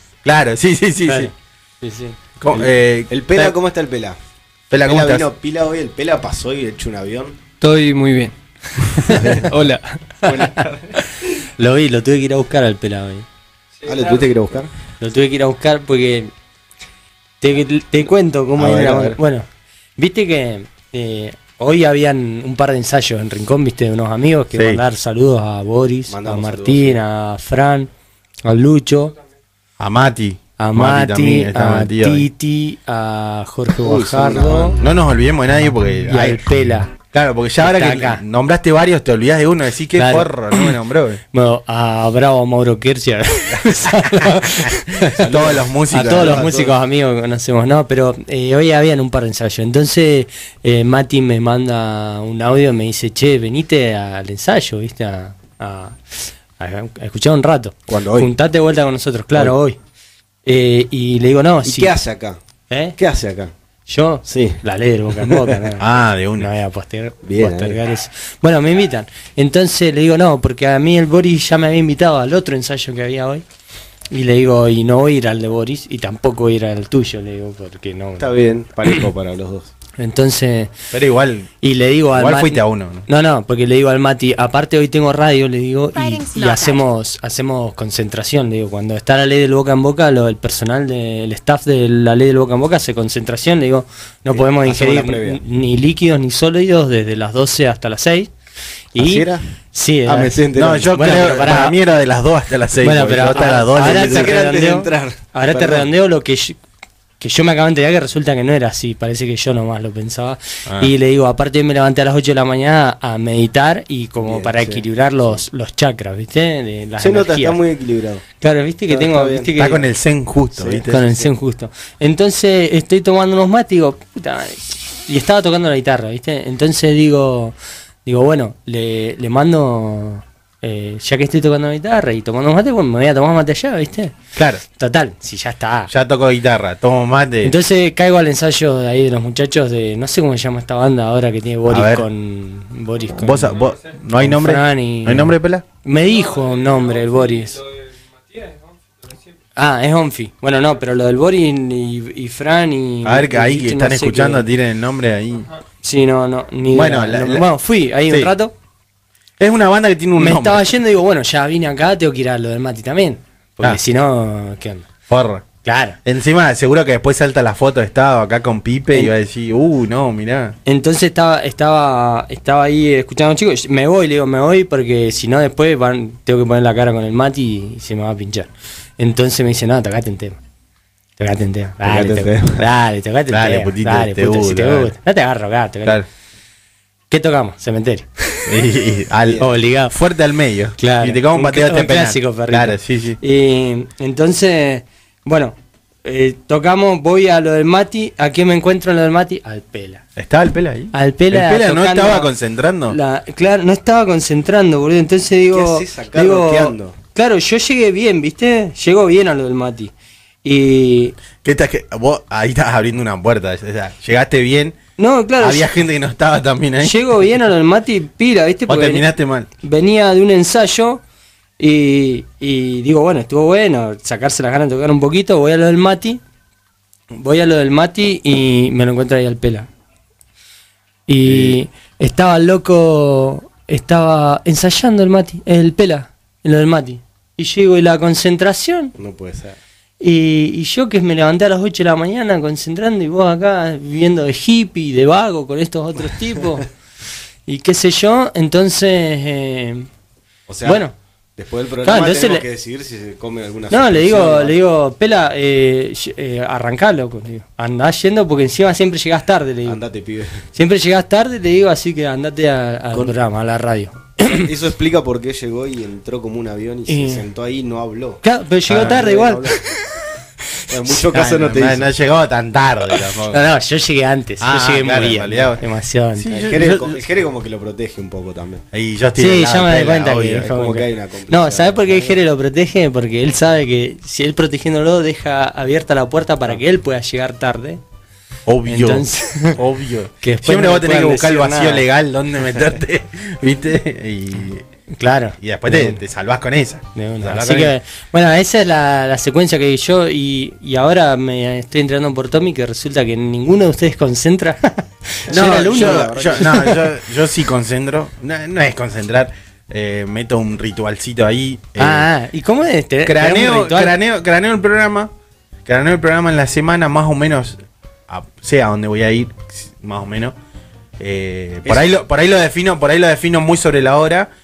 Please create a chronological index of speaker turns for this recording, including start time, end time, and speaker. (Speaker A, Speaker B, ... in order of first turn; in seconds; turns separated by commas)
Speaker A: 0.2-1.3, Speaker B: 1.1-2.2, Speaker A: 2.4-3.6, Speaker C: 2.5-4.2, Speaker A: 4.7-5.3, Speaker C: 4.8-7.3, Speaker D: 7.6-10.7, Speaker B: 9.1-9.4, Speaker C: 9.2-9.5, Speaker B: 11.0-13.2, Speaker D: 13.8-14.2, Speaker C: 13.9-14.7, Speaker B: 15.0-16.3, Speaker B: 17.4-27.9, Speaker C: 18.6-19.2, Speaker A: 24.5-24.8, Speaker C: 26.1-27.0, Speaker B: 28.4-29.1, Speaker A: 29.8-32.2, Speaker B: 30.6-34.8, Speaker C: 33.8-34.8, Speaker A: 34.8-36.4, Speaker B: 36.0-37.0, Speaker A: 37.1-41.2, Speaker B: 37.6-38.2, Speaker B: 40.0-40.7, Speaker B: 41.3-45.2, Speaker A: 43.5-46.5, Speaker C: 45.2-46.7, Speaker B: 45.9-59.8, Speaker C: 57.9-58.3, Speaker B: 60.4-61.9, Speaker C: 61.6-62.4, Speaker B: 62.7-63.0, Speaker C: 63.0-63.5, Speaker B: 63.9-73.4, Speaker C: 64.3-64.6, Speaker C: 65.2-65.5, Speaker A: 65.8-66.5, Speaker C: 67.2-67.8, Speaker B: 74.1-78.3, Speaker C: 78.2-79.7, Speaker B: 80.0-80.7, Speaker A: 80.9-81.5, Speaker B: 81.6-98.3, Speaker A: 82.1-83.1, Speaker C: 94.3-95.4, Speaker B: 98.9-101.8, Speaker C: 99.0-99.4, Speaker C: 100.0-100.9, Speaker A: 100.5-104.4, Speaker B: 102.8-106.6, Speaker C: 103.7-105.9, Speaker B: 107.2-117.6, Speaker C: 114.2-114.8, Speaker C: 117.0-118.2, Speaker B: 118.4-119.8, Speaker C: 118.9-119.7, Speaker A: 119.6-121.2, Speaker C: 120.5-120.9, Speaker B: 120.9-134.2, Speaker A: 134.3-134.6, Speaker B: 134.7-135.9, Speaker A: 135.9-137.5, Speaker B: 137.4-143.6, Speaker A: 141.7-142.1, Speaker A: 143.1-145.6, Speaker B: 144.2-147.6, Speaker D: 148.3-148.6, Speaker B: 149.5-154.5, Speaker A: 153.0-155.5, Speaker B: 155.8-158.5, Speaker A: 156.7-157.5, Speaker A: 159.4-160.6, Speaker B: 160.2-164.9, Speaker A: 165.1-165.5, Speaker B: 165.6-166.0, Speaker A: 166.0-170.6, Speaker B: 170.7-180.4, Speaker B: 181.2-186.0, Speaker C: 181.8-182.6, Speaker A: 183.3-184.9, Speaker B: 187.1-188.5, Speaker A: 188.5-193.2, Speaker B: 189.4-189.9, Speaker B: 190.8-200.0, Speaker A: 200.2-203.0, Speaker B: 200.9-202.3, Speaker B: 202.8-209.9, Speaker C: 205.5-206.9, Speaker B: 210.4-211.2, Speaker A: 211.4-214.8, Speaker B: 215.0-215.7, Speaker A: 215.4-217.0, Speaker B: 216.8-219.1, Speaker A: 218.7-219.5, Speaker B: 219.6-221.0, Speaker B: 221.6-226.2, Speaker B: 227.1-229.7, Speaker B: 231.1-238.9, Speaker C: 239.0-239.6, Speaker B: 240.0-246.7, Speaker B: 247.5-249.9, Speaker C: 250.5-250.8, Speaker B: 250.6-250.9, Speaker C: 251.4-254.5, Speaker B: 251.8-252.4, Speaker B: 253.7-259.8, Speaker C: 259.6-260.4, Speaker B: 260.5-264.5, Speaker C: 264.2-269.7, Speaker B: 266.9-267.2, Speaker B: 268.2-269.6, Speaker A: 268.7-269.0, Speaker C: 270.7-271.9, Speaker A: 271.1-273.4, Speaker B: 273.1-276.4, Speaker A: 274.4-275.6, Speaker A: 276.1-277.0, Speaker C: 276.3-278.6, Speaker A: 278.7-280.5, Speaker B: 279.2-287.8, Speaker C: 280.4-282.1, Speaker A: 288.4-294.6, Speaker B: 288.6-289.6, Speaker B: 290.2-291.8, Speaker B: 294.9-296.0, Speaker A: 295.4-297.7, Speaker B: 296.9-306.7, Speaker C: 305.3-306.8, Speaker A: 305.3-312.1, Speaker B: 311.8-313.9, Speaker A: 313.0-315.1, Speaker A: 315.6-320.3, Speaker A: 321.0-324.3